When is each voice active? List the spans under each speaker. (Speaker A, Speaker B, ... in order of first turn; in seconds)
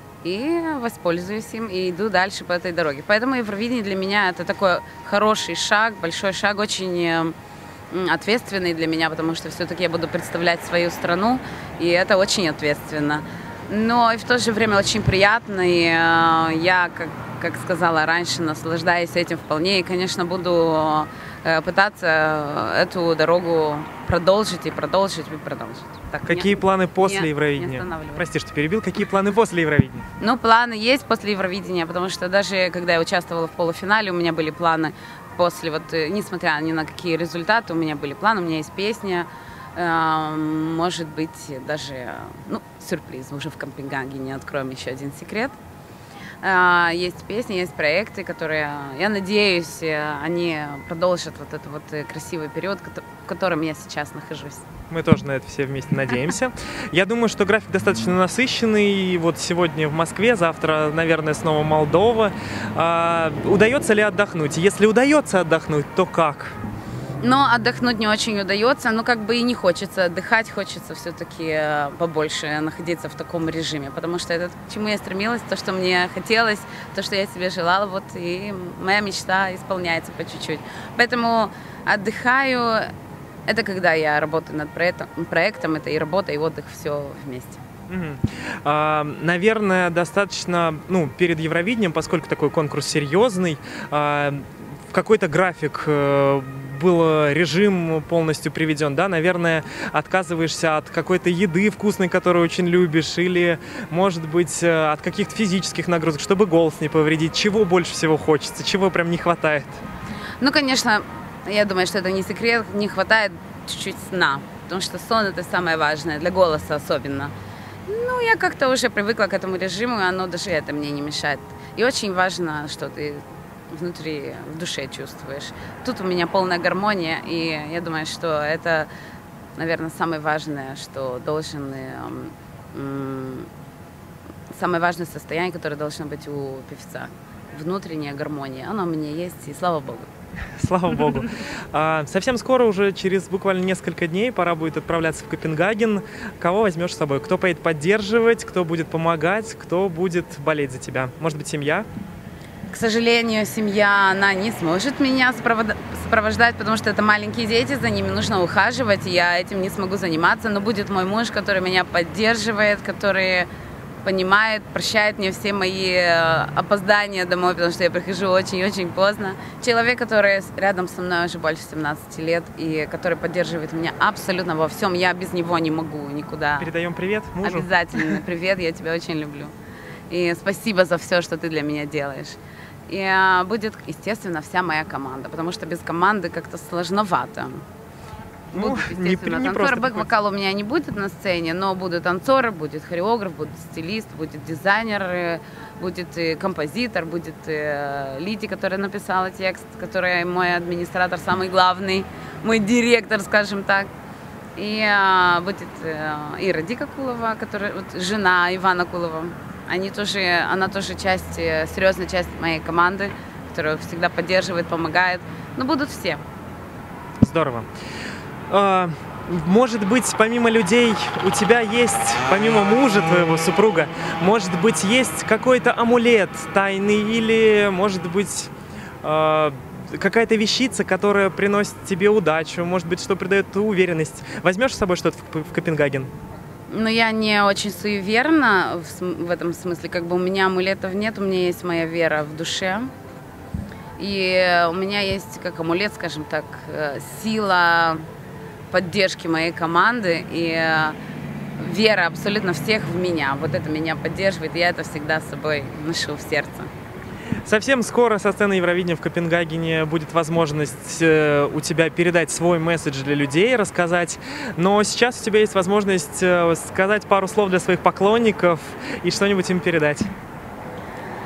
Speaker A: 0.2-7.3, 7.9-28.2, 30.2-45.5, 46.4-54.6, 67.2-82.9, 83.5-87.6, 110.4-117.3, 117.8-128.9, 129.6-133.5, 134.5-140.1, 152.7-163.5, 164.0-176.7, 177.4-179.5, 180.1-187.6, 188.5-203.9, 204.6-216.2, 236.7-242.9, 244.0-248.0, 248.7-250.9, 251.6-256.7
Speaker B: 26.2-30.1, 54.9-66.5, 87.9-109.8, 140.6-151.9, 176.6-178.2, 188.5-190.1, 217.2-217.7, 218.5-236.1, 257.4-270.1